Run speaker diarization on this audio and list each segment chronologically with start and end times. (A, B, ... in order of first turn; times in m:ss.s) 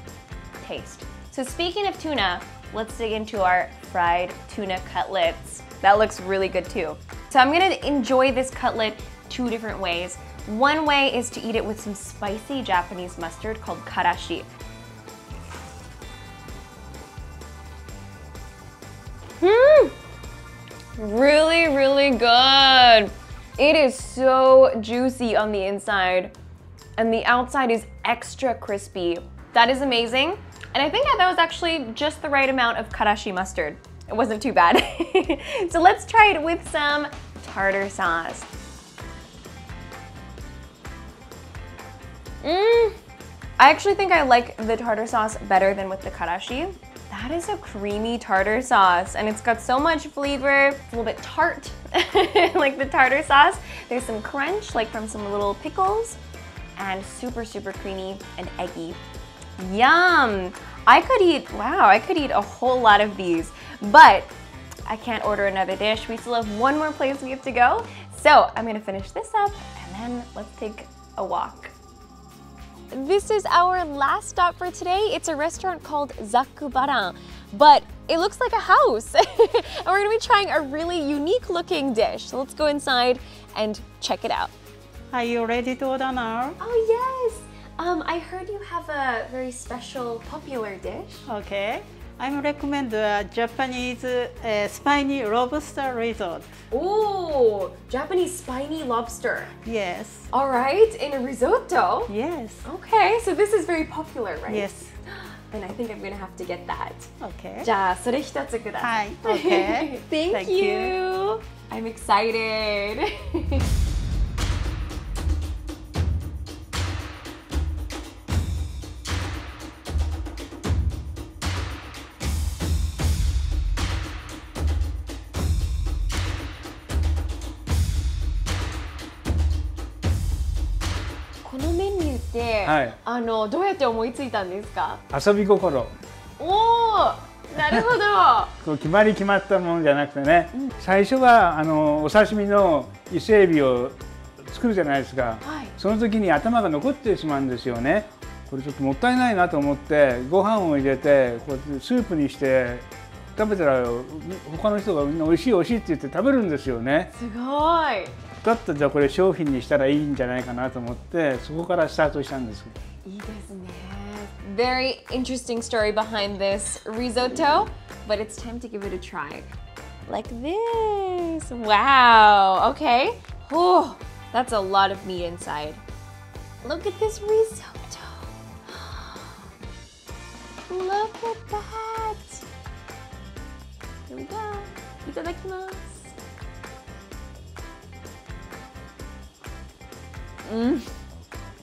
0:00.6-0:14.5 A
0:19.4-0:20.0 A
0:21.0-0:26.3 A
0:27.0-0:38.5 A
0:42.4-0:43.0 A
0:43.6-0:56.2 A
0:56.8-0:59.0 A
0:59.6-1:04.3 A
1:04.9-1:11.7 A
1:12.9-1:24.5 A
1:25.1-1:26.6 B
1:26.6-1:31.3 A
1:31.3-1:36.5 B
1:36.7-1:39.5 A
1:39.6-1:40.3 B
1:40.3-1:42.1 A
1:42.1-1:42.7 B
1:42.6-1:44.7 A
1:44.5-1:44.9 B
1:45.5-1:53.7 A
1:47.2-1:47.7 B
1:48.8-1:50.9 B
2:11.4-2:15.0 A
2:12.6-2:13.0 C
2:15.1-2:15.9 C
2:16.4-2:18.5 A
2:18.6-2:37.1 C
2:25.4-2:25.7 A
2:37.2-2:38.1 A
2:38.4-2:42.7 C
2:43.0-2:49.5 A
2:50.1-2:55.8 A
2:56.6-2:59.3 A
3:00.7-3:02.4 A
3:04.1-3:06.1 A
3:10.4-3:10.8 A